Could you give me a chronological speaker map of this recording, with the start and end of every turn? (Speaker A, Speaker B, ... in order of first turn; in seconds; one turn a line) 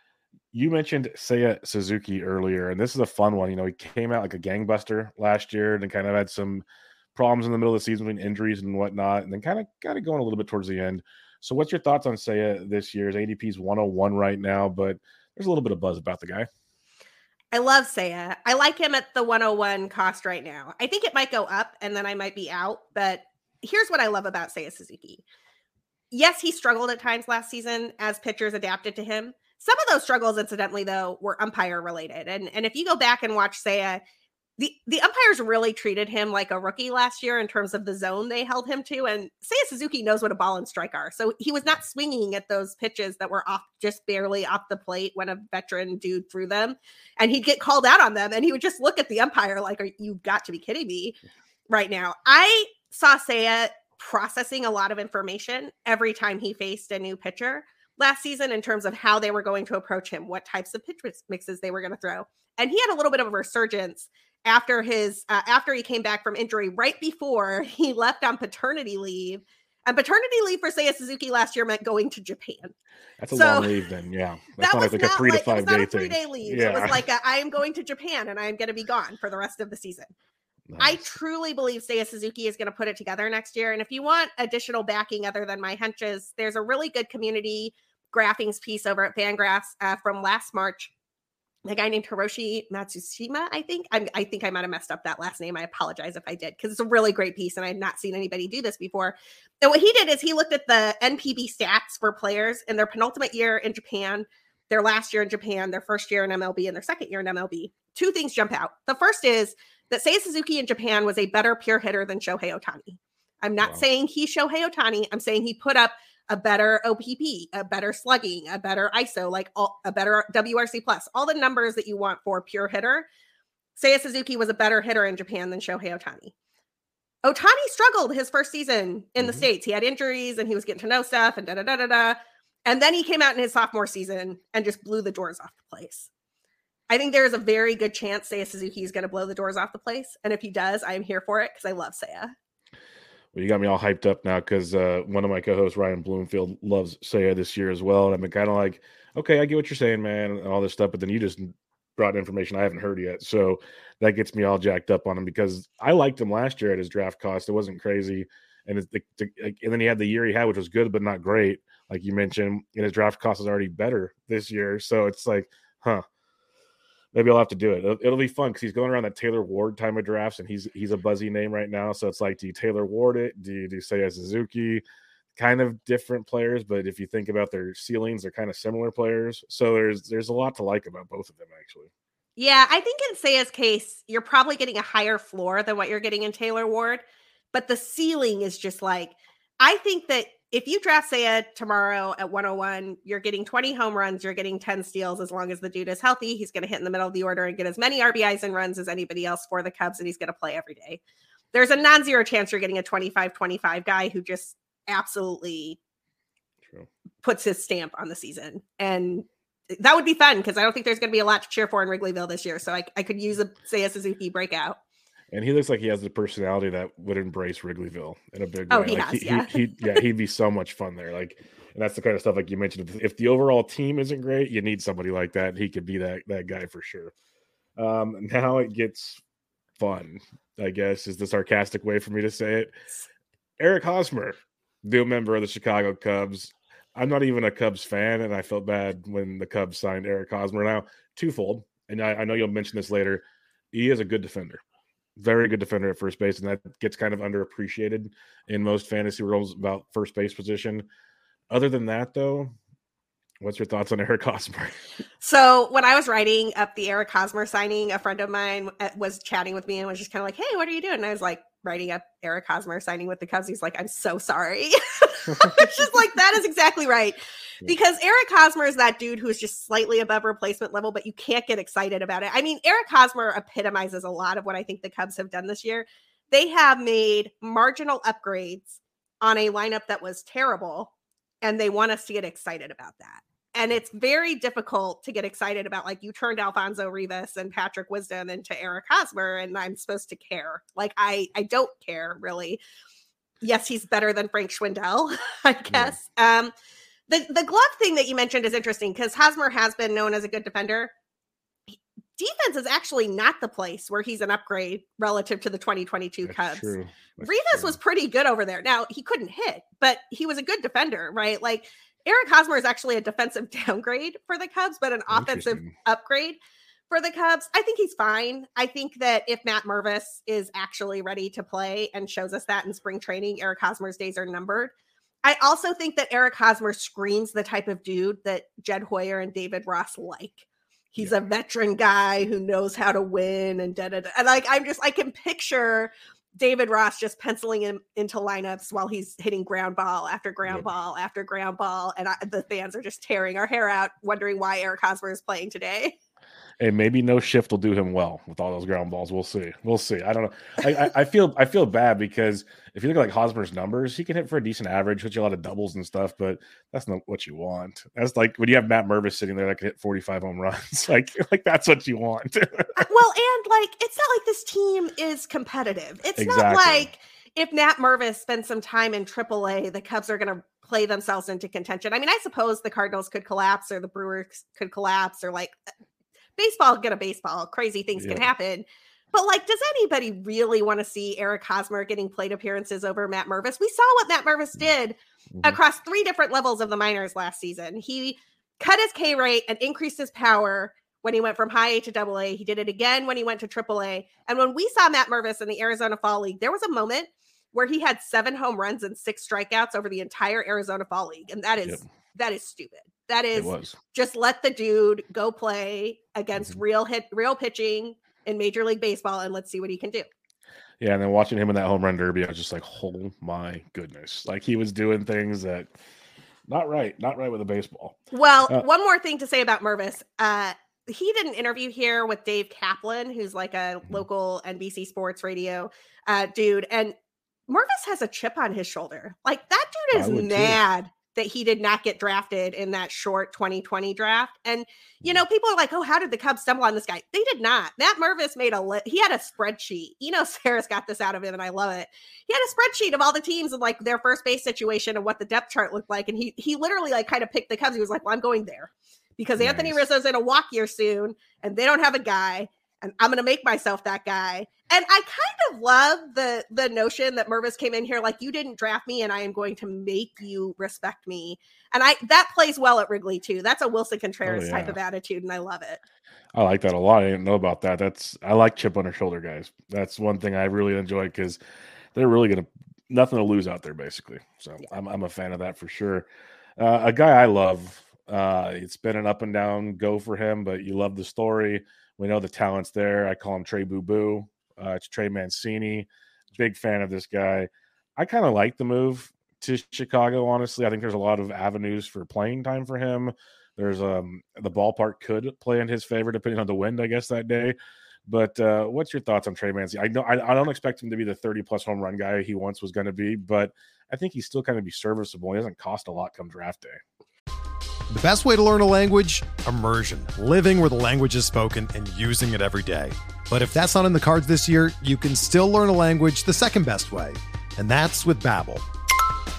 Speaker A: 0.5-6.6
Speaker A: 7.1-16.5
Speaker B: 17.5-25.2
Speaker B: 26.1-34.0
Speaker B: 34.6-51.2
Speaker B: 51.7-72.7
Speaker A: 73.2-77.0
Speaker B: 73.3-73.7
Speaker B: 74.6-80.1
Speaker A: 80.7-81.0
Speaker B: 80.8-90.9
Speaker B: 91.7-123.0
Speaker B: 123.8-126.3
Speaker B: 127.2-136.1
Speaker A: 129.2-129.5
Speaker B: 136.9-142.3
Speaker A: 143.3-166.0
Speaker A: 167.1-174.8
Speaker A: 175.3-181.9
Speaker B: 182.4-201.0
Speaker B: 201.5-205.8
Speaker B: 207.2-214.8
Speaker A: 215.3-227.1
Speaker B: 218.7-220.0
Speaker A: 227.8-229.2
Speaker A: 229.8-232.7
Speaker A: 233.6-244.6
Speaker A: 245.2-250.9
Speaker A: 251.5-252.5
Speaker A: 253.4-254.8
Speaker B: 255.2-280.9
Speaker A: 265.4-265.7
Speaker B: 281.4-292.6
Speaker B: 293.4-296.5
Speaker B: 297.1-300.9
Speaker B: 302.2-316.4
Speaker A: 306.2-307.8
Speaker A: 315.1-315.7
Speaker B: 316.9-324.7
Speaker B: 325.2-345.9
Speaker A: 346.6-362.9
Speaker B: 362.8-375.6
Speaker A: 366.1-366.9
Speaker B: 376.4-410.1
Speaker A: 377.9-378.3
Speaker A: 385.3-385.6
Speaker A: 403.3-403.8
Speaker A: 410.8-415.7
Speaker A: 416.5-418.6
Speaker B: 418.1-426.9
Speaker B: 427.5-465.8
Speaker A: 429.9-430.6
Speaker A: 449.4-449.8
Speaker A: 464.2-464.8
Speaker A: 466.3-471.4
Speaker A: 471.9-506.8
Speaker C: 507.9-518.6